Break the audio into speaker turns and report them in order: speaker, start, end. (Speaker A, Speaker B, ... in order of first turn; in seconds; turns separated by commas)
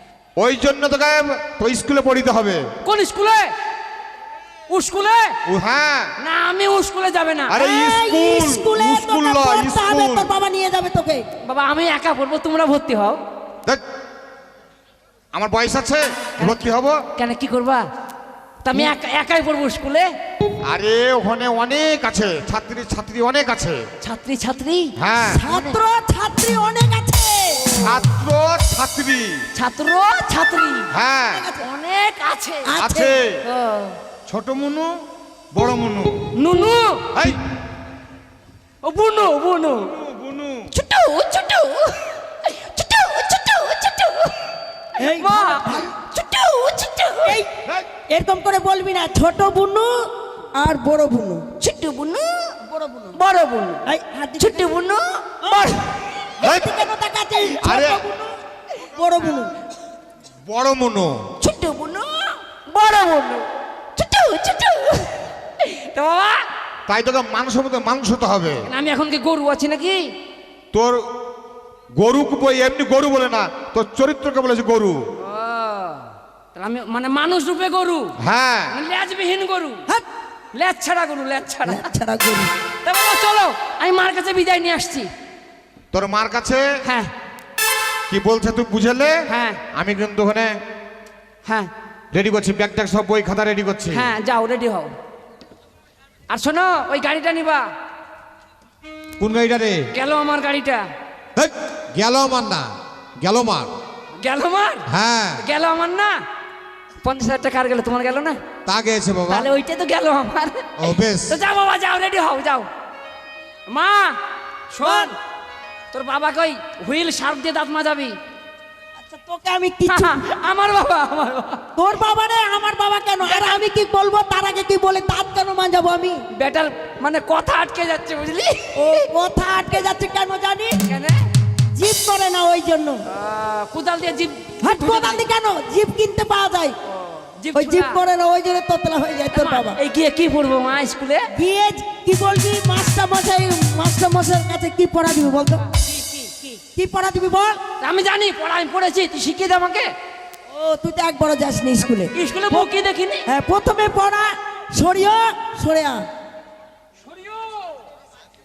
Speaker A: 0.4-2.6, Speaker B: 2.8-3.5, Speaker B: 4.7-5.4, Speaker A: 5.5-6.1, Speaker B: 6.2-7.6, Speaker A: 7.5-10.3, Speaker C: 7.6-11.2, Speaker B: 11.5-13.2, Speaker A: 15.3-17.0, Speaker B: 16.4-17.8, Speaker B: 18.6-20.1, Speaker A: 20.6-23.8, Speaker B: 24.0-24.9, Speaker A: 25.0-25.4, Speaker C: 25.2-27.6, Speaker B: 25.5-25.8, Speaker B: 27.6-28.0, Speaker A: 27.8-29.4, Speaker B: 29.6-30.9, Speaker A: 30.9-31.5, Speaker C: 31.3-31.7, Speaker B: 31.6-32.7, Speaker C: 32.6-33.2, Speaker A: 32.8-33.4, Speaker B: 33.4-34.0, Speaker A: 34.3-35.0, Speaker A: 35.5-36.2, Speaker B: 36.4-37.0, Speaker A: 37.1-37.4, Speaker B: 38.8-39.9, Speaker A: 39.9-40.7, Speaker B: 40.7-44.3, Speaker C: 45.0-45.9, Speaker B: 45.1-47.4, Speaker C: 47.2-47.5, Speaker C: 48.1-50.0, Speaker C: 50.6-51.5, Speaker B: 51.6-52.6, Speaker C: 52.7-53.2, Speaker B: 53.1-53.8, Speaker C: 53.9-54.8, Speaker B: 54.4-55.8, Speaker C: 55.4-55.8, Speaker C: 56.4-58.3, Speaker A: 56.4-56.7, Speaker A: 57.6-58.0, Speaker C: 59.0-59.5, Speaker A: 60.5-61.2, Speaker B: 61.4-66.4, Speaker A: 66.9-68.6, Speaker B: 68.7-70.0, Speaker A: 70.7-71.0, Speaker A: 72.0-75.0, Speaker B: 75.2-78.1, Speaker A: 78.2-78.8, Speaker B: 78.7-79.8, Speaker B: 80.5-81.9, Speaker C: 81.6-82.5, Speaker B: 82.8-85.1, Speaker A: 85.9-86.7, Speaker B: 86.8-87.1, Speaker A: 88.1-89.2, Speaker B: 89.3-89.6, Speaker A: 89.8-90.6, Speaker B: 91.5-91.7, Speaker A: 92.1-94.1, Speaker B: 93.9-94.9, Speaker B: 96.3-97.7, Speaker A: 99.2-99.8, Speaker B: 99.9-100.8, Speaker A: 101.4-102.7, Speaker A: 103.2-103.7, Speaker B: 104.2-104.9, Speaker A: 104.9-105.4, Speaker B: 105.4-106.2, Speaker B: 107.0-108.4, Speaker A: 108.7-109.5, Speaker B: 109.3-110.7, Speaker A: 110.8-111.4, Speaker B: 111.2-112.7, Speaker B: 113.7-114.2, Speaker B: 114.7-115.1, Speaker C: 114.8-115.1, Speaker B: 115.9-118.2, Speaker C: 119.0-120.2, Speaker B: 119.9-121.6, Speaker C: 121.8-126.2, Speaker B: 123.2-123.6, Speaker B: 126.3-129.0, Speaker C: 128.8-130.8, Speaker B: 130.8-131.2, Speaker C: 131.7-133.0, Speaker B: 133.1-135.2, Speaker C: 134.6-136.8, Speaker B: 137.0-138.0, Speaker C: 137.5-139.8, Speaker B: 139.3-141.2, Speaker C: 141.3-145.7, Speaker B: 145.8-146.6, Speaker C: 146.8-147.6, Speaker B: 147.8-149.9, Speaker C: 150.5-152.7, Speaker B: 152.1-153.2, Speaker C: 153.3-156.0, Speaker B: 157.0-157.8